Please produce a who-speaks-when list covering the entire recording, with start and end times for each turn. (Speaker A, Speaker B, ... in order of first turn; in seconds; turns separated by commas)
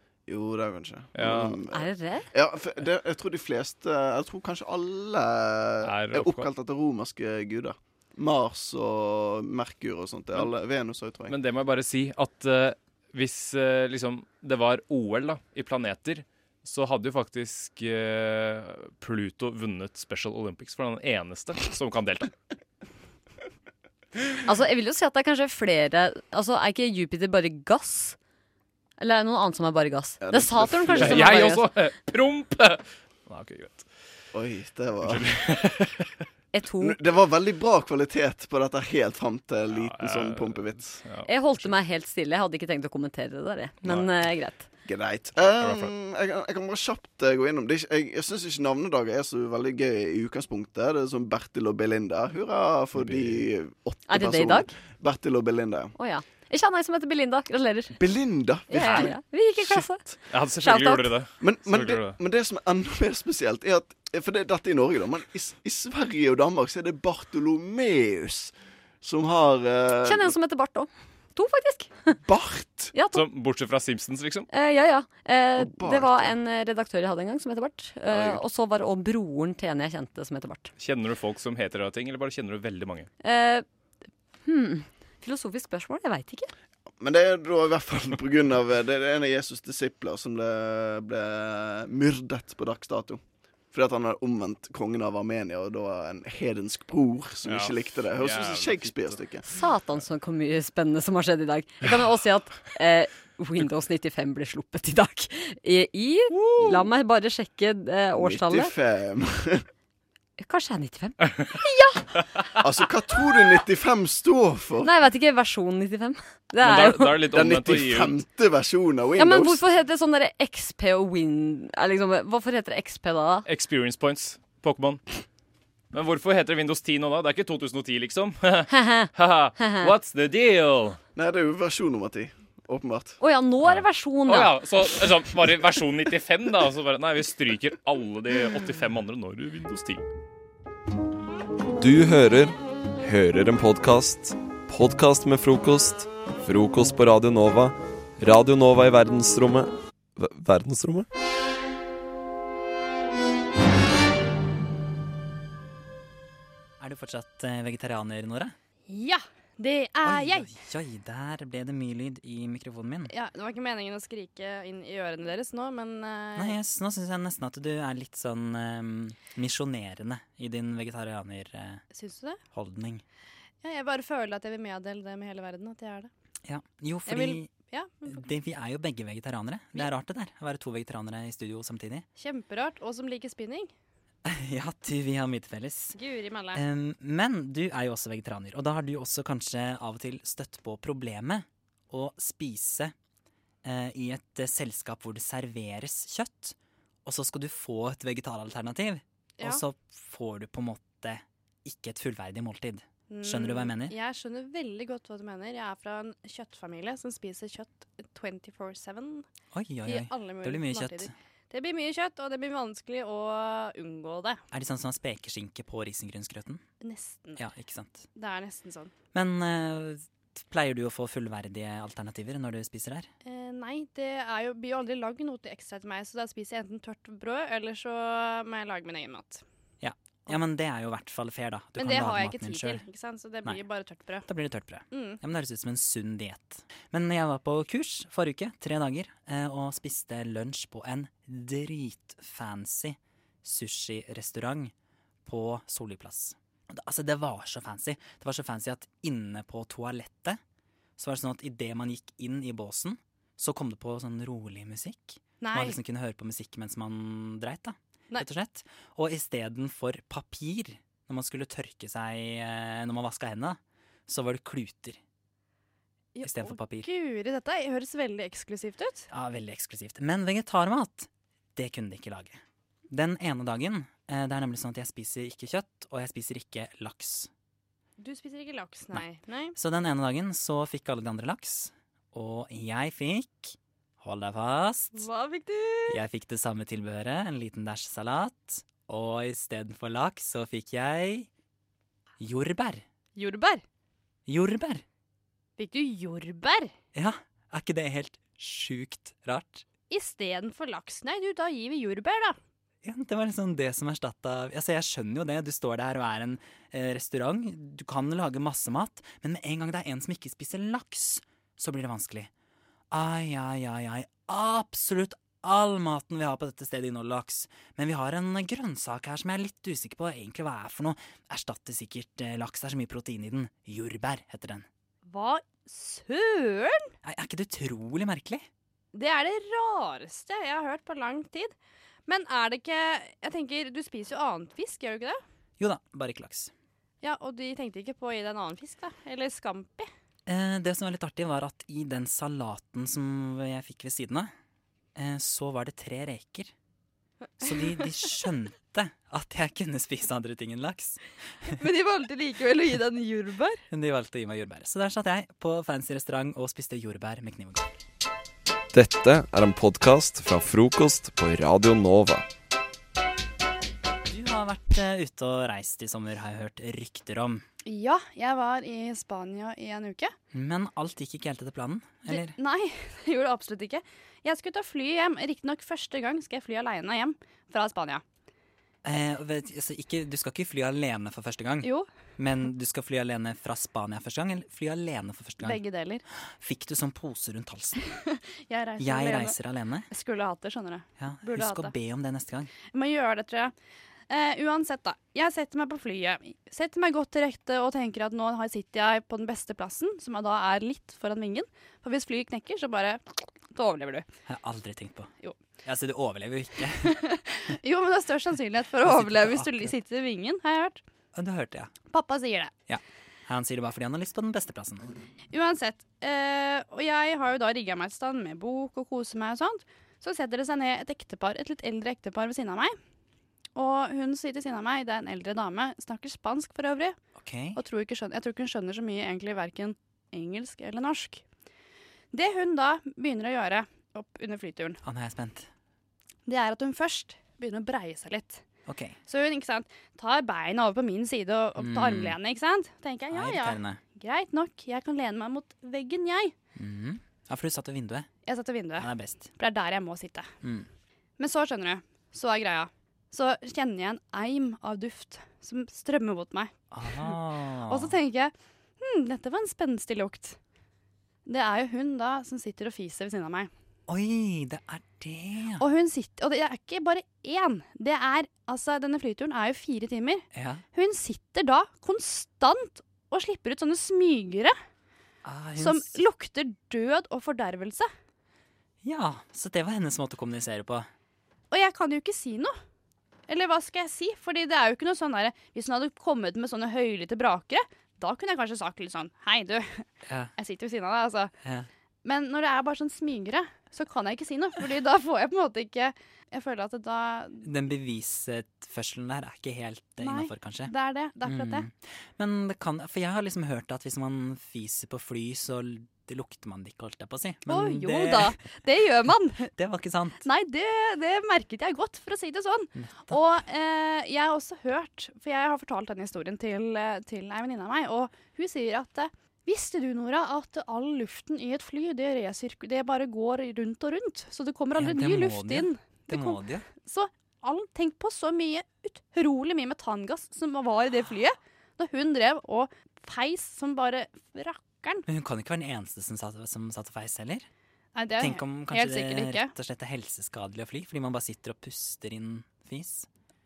Speaker A: 0.3-11.3, Speaker B: 1.1-1.6, Speaker C: 1.7-2.3, Speaker B: 5.8-6.5, Speaker B: 11.3-22.3, Speaker C: 24.4-28.2, Speaker C: 29.0-31.6, Speaker A: 30.2-31.3, Speaker B: 31.0-33.9, Speaker A: 34.3-35.3, Speaker B: 35.0-36.1, Speaker C: 36.5-37.0, Speaker A: 36.8-41.0, Speaker B: 39.7-41.3, Speaker C: 41.3-44.6, Speaker A: 44.9-55.9, Speaker B: 45.6-45.9, Speaker B: 52.9-53.4, Speaker C: 54.1-54.7, Speaker C: 56.0-58.0, Speaker A: 58.0-59.1, Speaker C: 58.7-61.1, Speaker B: 58.8-59.1, Speaker B: 60.3-62.2, Speaker A: 61.4-70.3, Speaker C: 70.0-72.2, Speaker A: 72.2-72.9, Speaker C: 72.9-73.2, Speaker B: 73.1-74.5, Speaker C: 74.5-80.7, Speaker A: 75.5-76.3, Speaker A: 78.1-78.4, Speaker B: 80.8-83.1, Speaker C: 83.2-83.6, Speaker C: 84.4-86.5, Speaker A: 87.0-93.2, Speaker A: 93.7-99.4, Speaker B: 97.4-99.2, Speaker C: 99.4-108.7, Speaker A: 106.5-106.8, Speaker A: 108.2-109.7, Speaker C: 110.4-112.2, Speaker A: 112.6-114.9, Speaker C: 114.8-117.2, Speaker B: 116.6-118.2, Speaker A: 117.3-119.6, Speaker C: 119.2-123.5, Speaker B: 123.5-125.0, Speaker B: 125.9-131.0, Speaker C: 128.7-129.9, Speaker A: 131.2-133.2, Speaker C: 133.2-134.5, Speaker B: 133.6-140.0, Speaker D: 141.8-151.1, Speaker E: 156.8-158.5, Speaker F: 158.9-160.5, Speaker E: 160.0-163.1, Speaker F: 163.1-166.6, Speaker E: 166.4-171.8, Speaker F: 171.9-172.4, Speaker E: 172.5-173.0, Speaker F: 173.6-176.1, Speaker E: 176.4-177.5, Speaker F: 177.1-178.3, Speaker E: 178.1-182.1, Speaker F: 182.2-183.7, Speaker E: 184.2-185.9, Speaker F: 185.9-186.6, Speaker E: 186.5-192.9, Speaker E: 193.6-203.9, Speaker F: 203.1-209.2, Speaker E: 209.5-211.1, Speaker F: 209.8-214.4, Speaker E: 214.5-216.6, Speaker F: 216.8-217.4, Speaker E: 217.4-218.1, Speaker F: 218.1-218.9, Speaker E: 219.1-223.1, Speaker F: 223.2-229.4, Speaker E: 229.8-232.8, Speaker F: 231.8-234.3, Speaker E: 234.3-244.7, Speaker F: 234.9-235.2, Speaker E: 245.2-250.4, Speaker E: 251.0-265.0, Speaker F: 255.4-255.8, Speaker F: 266.1-269.1, Speaker E: 266.2-266.9, Speaker E: 269.1-277.3, Speaker F: 278.0-279.6, Speaker E: 279.6-285.0, Speaker F: 284.9-286.0, Speaker E: 285.9-291.3, Speaker E: 292.2-292.8, Speaker F: 293.1-293.6, Speaker E: 294.3-294.8, Speaker F: 295.6-296.7, Speaker E: 296.9-299.6, Speaker F: 299.9-302.4, Speaker E: 302.8-312.3, Speaker E: 312.9-324.6, Speaker F: 325.1-326.9, Speaker E: 327.0-328.4, Speaker F: 328.9-331.5, Speaker F: 332.1-335.2, Speaker E: 335.6-336.5, Speaker F: 337.0-339.9, Speaker E: 340.2-344.3, Speaker E: 344.9-346.5, Speaker E: 347.4-351.0, Speaker F: 347.4-347.9, Speaker F: 351.5-353.6, Speaker E: 353.7-357.6, Speaker D: 358.7-362.2, Speaker E: 364.1-367.4, Speaker F: 367.6-370.1, Speaker E: 370.3-372.3, Speaker F: 372.1-378.0, Speaker E: 378.8-385.6, Speaker F: 381.6-381.9, Speaker F: 385.4-386.0, Speaker E: 386.4-387.8, Speaker F: 388.1-389.4, Speaker E: 388.8-389.9, Speaker F: 389.9-391.7, Speaker E: 391.0-392.5, Speaker F: 392.6-393.5, Speaker F: 394.1-403.0, Speaker F: 403.5-404.1, Speaker E: 404.3-405.1, Speaker E: 405.6-406.9, Speaker F: 406.8-410.8, Speaker E: 408.8-409.7, Speaker E: 411.1-411.7, Speaker F: 411.9-412.5, Speaker E: 412.7-414.9, Speaker F: 415.3-422.8, Speaker F: 423.5-426.9, Speaker E: 427.2-427.6, Speaker F: 427.6-431.2, Speaker F: 432.1-434.8, Speaker E: 434.8-435.5, Speaker F: 436.2-438.4, Speaker E: 438.7-439.0, Speaker F: 439.1-446.3, Speaker E: 441.6-442.1, Speaker E: 443.1-443.8, Speaker E: 446.6-448.1, Speaker F: 448.2-450.3, Speaker E: 448.8-449.3, Speaker F: 451.2-457.1, Speaker E: 456.7-457.9, Speaker F: 457.7-460.4, Speaker F: 461.2-463.5, Speaker E: 463.9-465.6, Speaker F: 465.6-474.5, Speaker E: 470.3-470.6, Speaker E: 475.2-476.0, Speaker F: 475.6-477.9, Speaker E: 478.8-480.9, Speaker F: 481.5-482.5, Speaker F: 483.3-491.3, Speaker E: 490.1-490.3, Speaker E: 491.4-491.7, Speaker F: 492.0-497.4, Speaker E: 497.4-500.7, Speaker F: 500.0-501.6, Speaker E: 501.2-508.4, Speaker F: 507.5-509.5, Speaker E: 509.5-510.2, Speaker F: 510.2-535.0, Speaker E: 512.8-513.2, Speaker E: 524.8-526.7, Speaker E: 535.1-537.5, Speaker F: 537.9-539.5, Speaker E: 538.2-543.1